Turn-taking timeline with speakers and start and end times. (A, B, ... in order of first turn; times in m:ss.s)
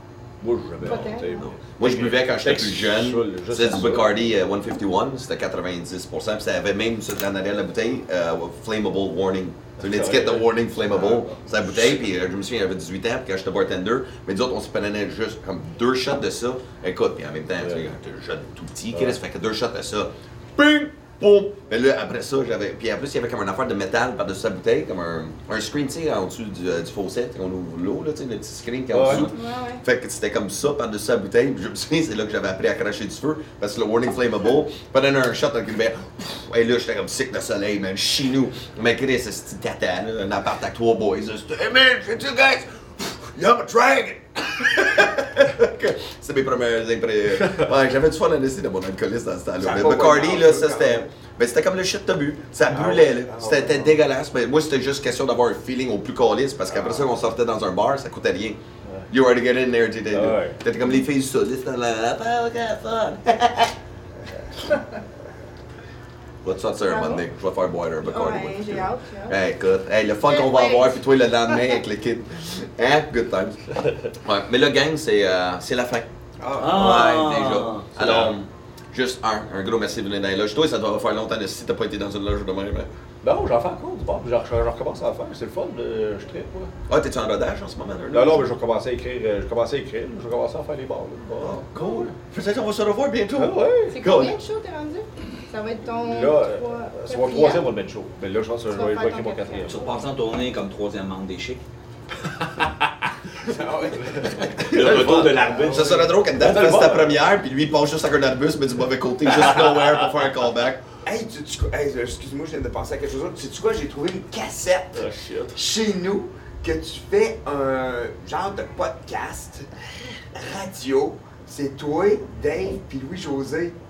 0:00.4-0:04.3 A
0:00.8-0:01.5 B
0:01.4-1:03.7 C
0:09.8-0:12.0 A
0:17.6-0:17.9 A
0:18.9-0:19.2 A
0:28.9-0:29.3 A
0:29.1-0:29.8 B
0:49.6-0:51.1 D
0:52.6-0:54.0 D
0:56.7-0:57.1 D
1:00.1-1:00.6 A
1:06.4-1:22.9 C
1:06.9-1:07.2 B
1:08.0-1:09.4 B
1:10.2-1:11.8 B
1:16.4-1:17.1 D
1:16.6-1:18.3 E
1:23.2-1:26.7 A
1:26.9-1:28.5 C
1:28.1-1:32.1 A
1:31.4-1:34.4 C
1:33.4-1:34.1 A
1:33.9-1:37.7 B
1:36.0-1:39.8 A
1:38.7-1:40.0 B
1:39.7-1:41.6 E
1:43.4-1:44.6 D
1:44.1-1:47.2 A
1:44.6-1:46.0 E
1:44.7-1:50.8 C
1:51.0-1:55.0 D
1:54.9-1:55.6 A
1:55.6-1:59.7 D
2:00.3-2:03.8 D